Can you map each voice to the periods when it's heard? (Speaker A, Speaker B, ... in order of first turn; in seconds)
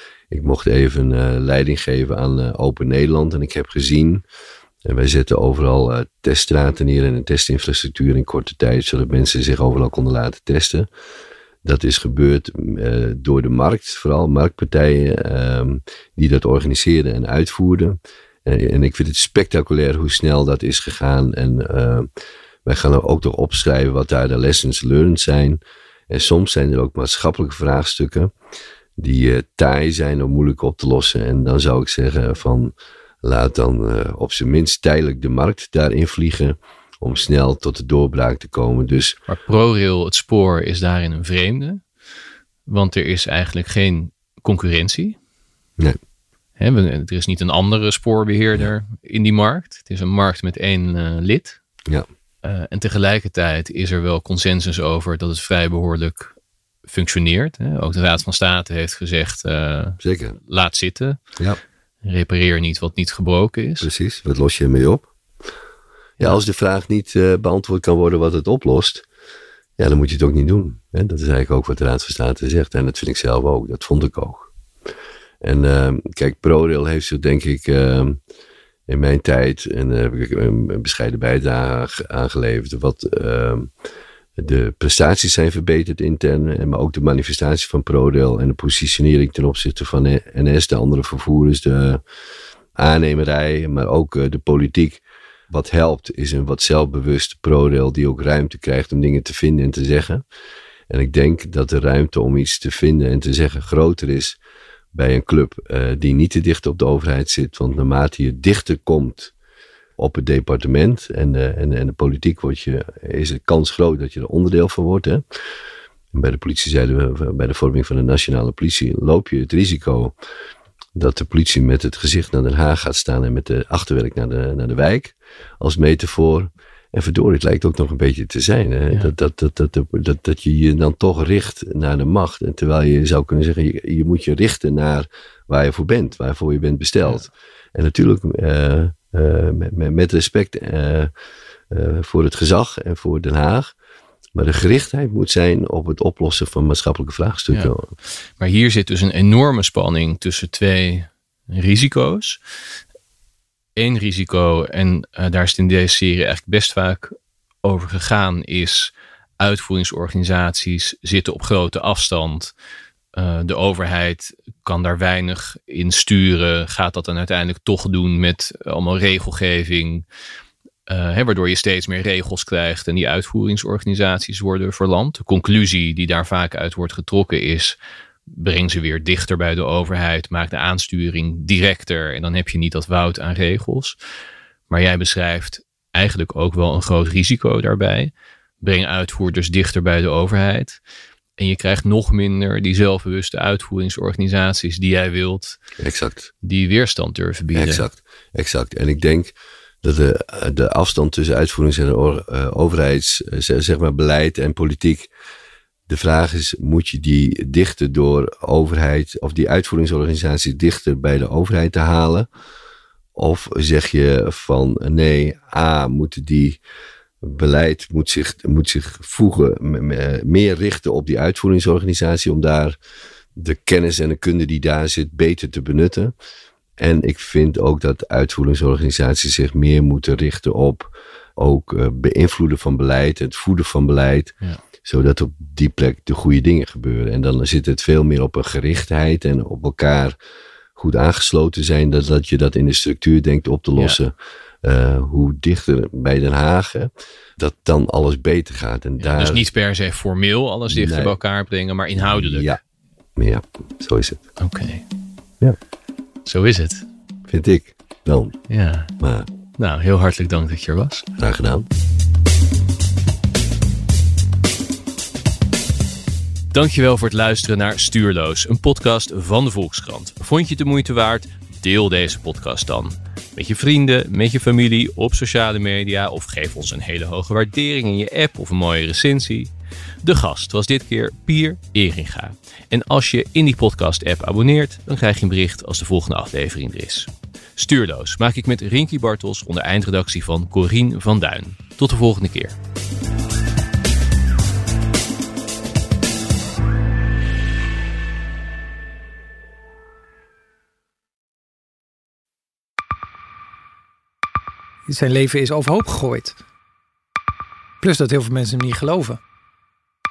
Speaker A: 0.3-4.2, 4.8-10.9, 11.6-22.1, 22.6-28.3, 29.0-39.2, 60.0-60.4, 63.8-65.1, 66.2-69.0, 69.8-74.5, 75.4-78.2, 78.9-83.7, 84.4-92.0, 92.8-100.2, 100.9-104.4, 104.9-109.3, 110.0-115.2, 116.1-120.2, 121.0-141.1, 141.7-143.7, 144.3-147.9, 195.8-196.3, 197.5-205.1, 205.9-212.3, 213.2-216.6, 217.2-222.8, 223.4-226.1, 226.8-240.2, 240.8-249.4, 250.7-251.2, 252.1-252.6, 253.2-254.2, 257.3-258.3, 259.0-259.3, 261.2-261.7
Speaker B: 39.3-41.8, 42.7-45.2, 46.6-51.6, 52.4-56.4, 56.9-61.2, 62.0-63.9, 148.4-152.4, 153.8-162.5, 163.2-170.1, 170.9-177.8, 178.3-184.0, 184.7-190.8, 191.4-195.6, 196.4-197.9, 249.0-252.5, 254.4-254.8, 256.2-256.9, 258.5-258.9, 259.6-261.1, 266.5-279.5, 280.0-292.6
Speaker C: 304.9-306.4, 307.8-309.2